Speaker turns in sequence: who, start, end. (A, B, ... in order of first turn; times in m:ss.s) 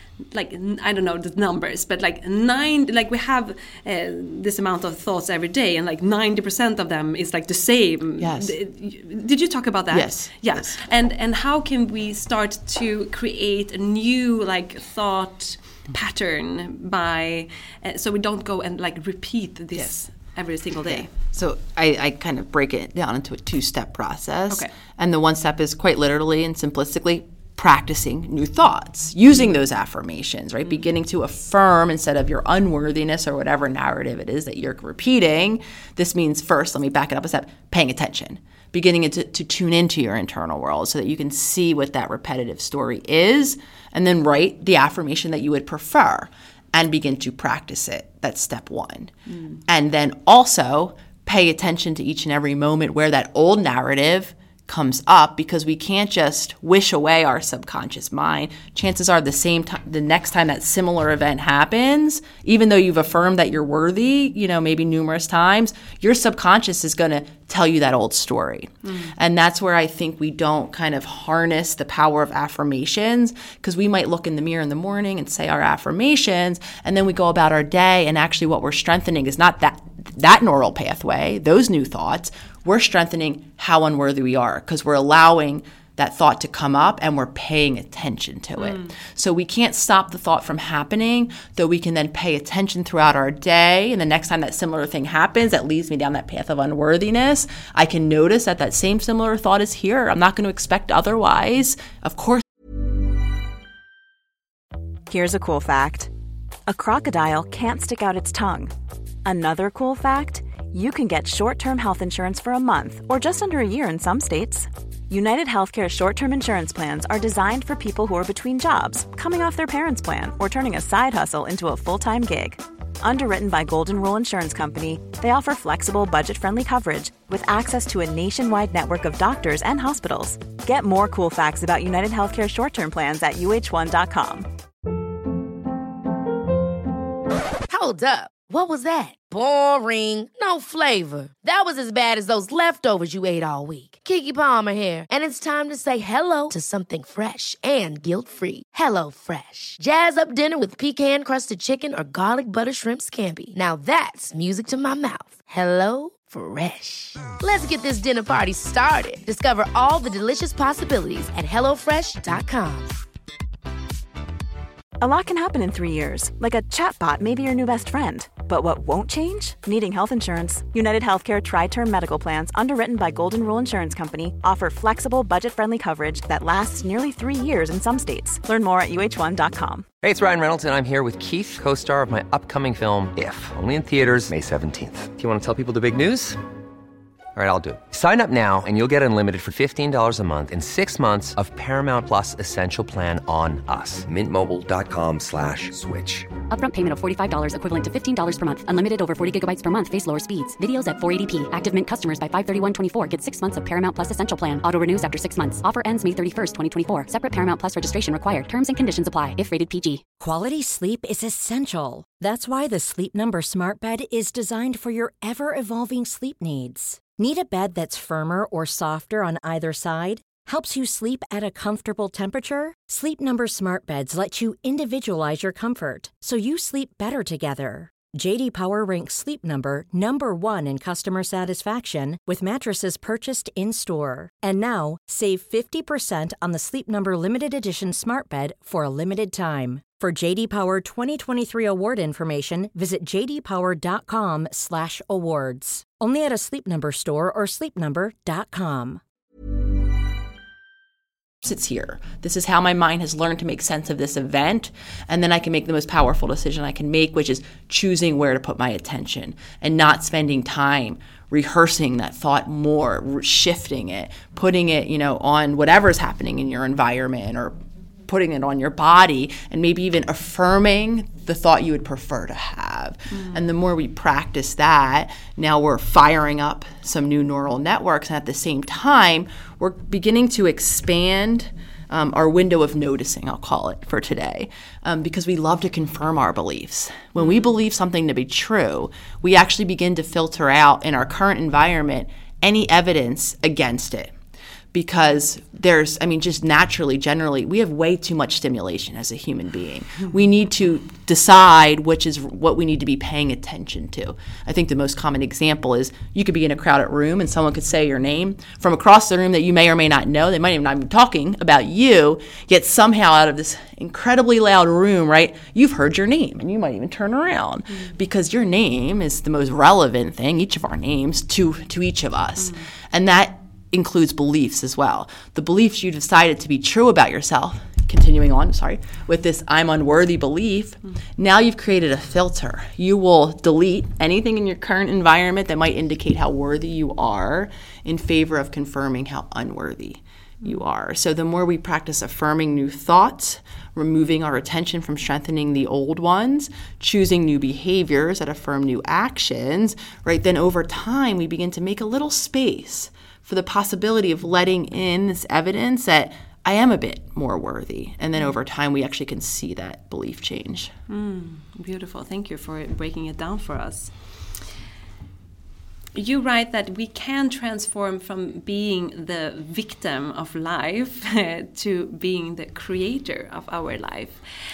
0:00.3-0:21.1 A
0:08.2-0:08.5 B
0:09.9-0:10.8 B
0:20.8-0:49.1 B
0:49.3-0:49.6 A
0:49.7-1:42.4 B
1:08.8-1:09.1 A
1:28.6-1:28.9 A
1:45.1-1:46.1 C
1:46.7-1:48.7 C
1:49.2-2:14.5 C
2:17.7-2:43.0 D
2:45.0-2:59.8 C
3:00.0-3:06.4 E
3:07.3-3:16.3 E
3:16.5-3:30.0 F
3:30.2-4:09.0 G
4:11.4-4:27.5 B
4:28.1-4:54.1 B
4:33.1-4:33.4 A
4:47.2-4:47.5 A
4:54.7-6:00.7 B
6:00.9-6:03.9 A
6:05.9-6:14.2 A